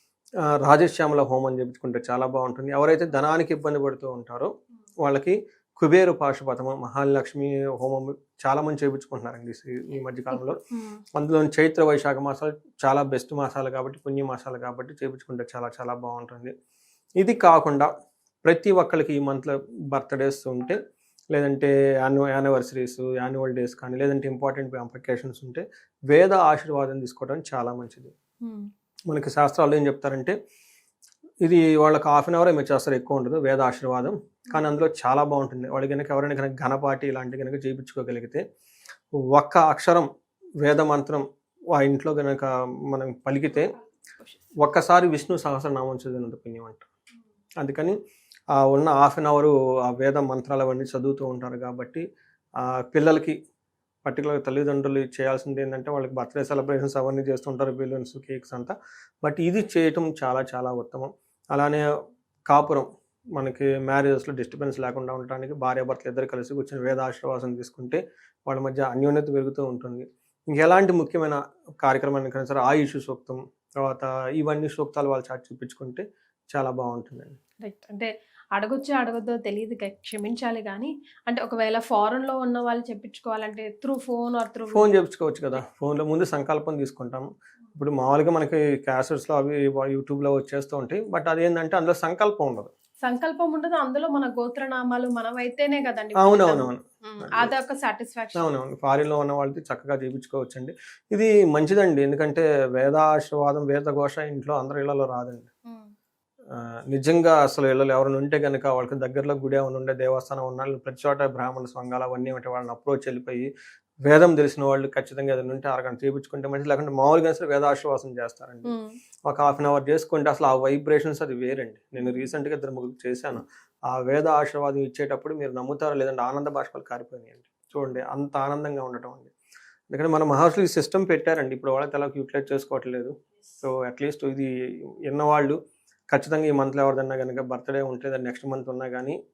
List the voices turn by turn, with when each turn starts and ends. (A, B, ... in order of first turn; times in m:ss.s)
0:00.6-0:04.5 A
0:05.0-0:10.6 A
0:10.3-0:11.0 B
0:11.2-0:16.5 A
0:17.2-0:17.9 A
0:18.4-0:20.8 A
0:21.3-0:28.1 A
0:28.4-0:28.7 B
0:29.1-0:30.4 A
0:31.4-0:38.4 A
0:39.3-0:40.1 A
0:40.6-0:43.7 A
0:44.6-0:46.9 A
0:47.6-0:48.0 A
0:48.6-0:52.0 A
0:52.6-0:53.4 A
0:54.0-1:01.8 A
1:02.5-1:17.4 A
1:17.6-1:25.0 B
1:24.7-1:32.7 A
1:33.0-1:38.5 B
1:36.2-1:37.5 A
1:38.3-1:45.5 A
1:46.5-1:53.5 A
1:54.0-1:58.7 A
1:58.6-1:59.0 B
1:59.2-2:09.3 A
2:09.9-2:14.5 A
2:15.1-2:15.6 A
2:16.1-2:19.2 A